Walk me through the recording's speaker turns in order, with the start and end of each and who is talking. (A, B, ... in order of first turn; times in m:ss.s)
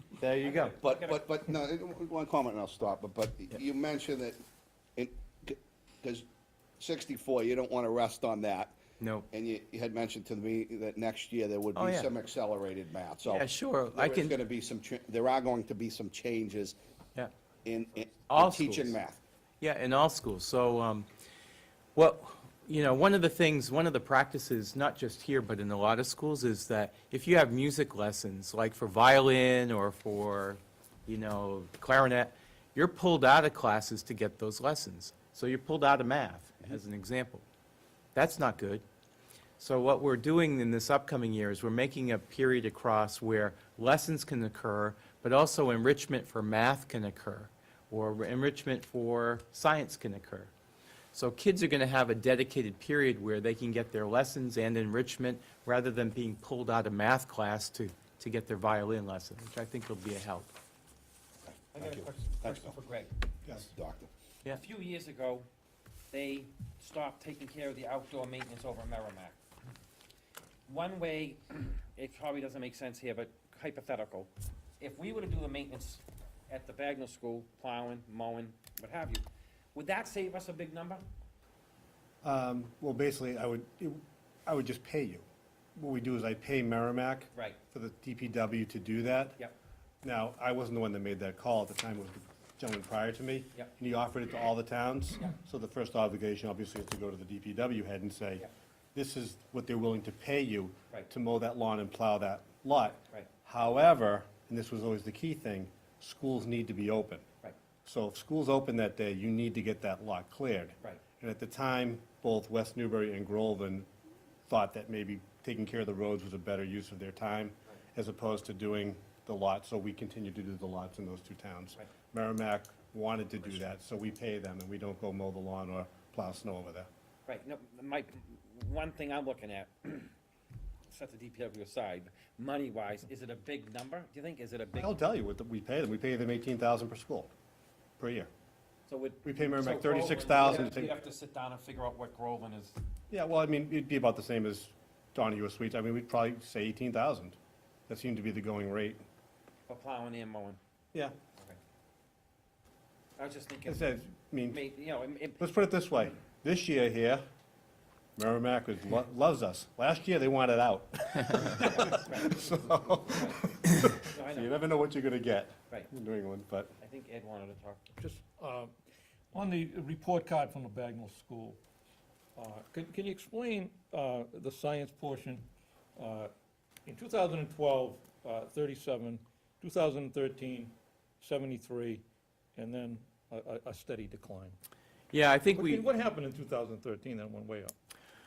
0:00.2-0:00.8 A
0:00.4-0:01.2 B
0:00.8-0:04.4 C
0:05.0-0:06.3 C
0:06.8-0:08.8 C
0:09.0-0:09.3 A
0:09.3-0:16.8 C
0:11.8-0:12.1 A
0:13.3-0:14.4 A
0:17.6-0:19.2 C
0:18.3-0:19.0 A
0:19.6-0:21.1 A
0:22.0-0:37.5 A
0:38.2-0:38.8 A
0:39.6-0:50.5 A
0:51.1-1:00.5 A
1:01.7-1:03.5 B
1:01.8-1:02.7 C
1:03.6-1:04.1 C
1:04.5-1:05.5 B
1:06.1-1:09.4 B
1:10.7-1:21.0 B
1:22.2-1:29.4 D
1:30.0-1:47.2 D
1:47.8-1:53.9 D
1:54.5-2:06.9 D
2:07.3-2:10.1 B
2:10.9-2:15.0 B
2:14.8-2:17.3 D
2:18.0-2:18.3 D
2:18.9-2:22.8 B
2:19.2-2:21.0 D
2:23.1-2:27.4 D
2:27.9-2:29.0 D
2:29.7-2:30.6 B
2:33.2-2:33.9 B
2:33.7-2:34.6 D
2:34.5-2:35.4 B
2:35.4-2:37.2 D
2:38.2-2:46.8 D
2:41.6-2:44.5 B
2:46.8-2:47.8 B
2:48.0-2:48.7 E
2:49.3-2:51.6 E
2:52.4-2:56.3 E
2:56.9-3:02.0 E
3:02.6-3:04.6 E
3:05.1-3:05.9 A
3:05.5-3:07.7 E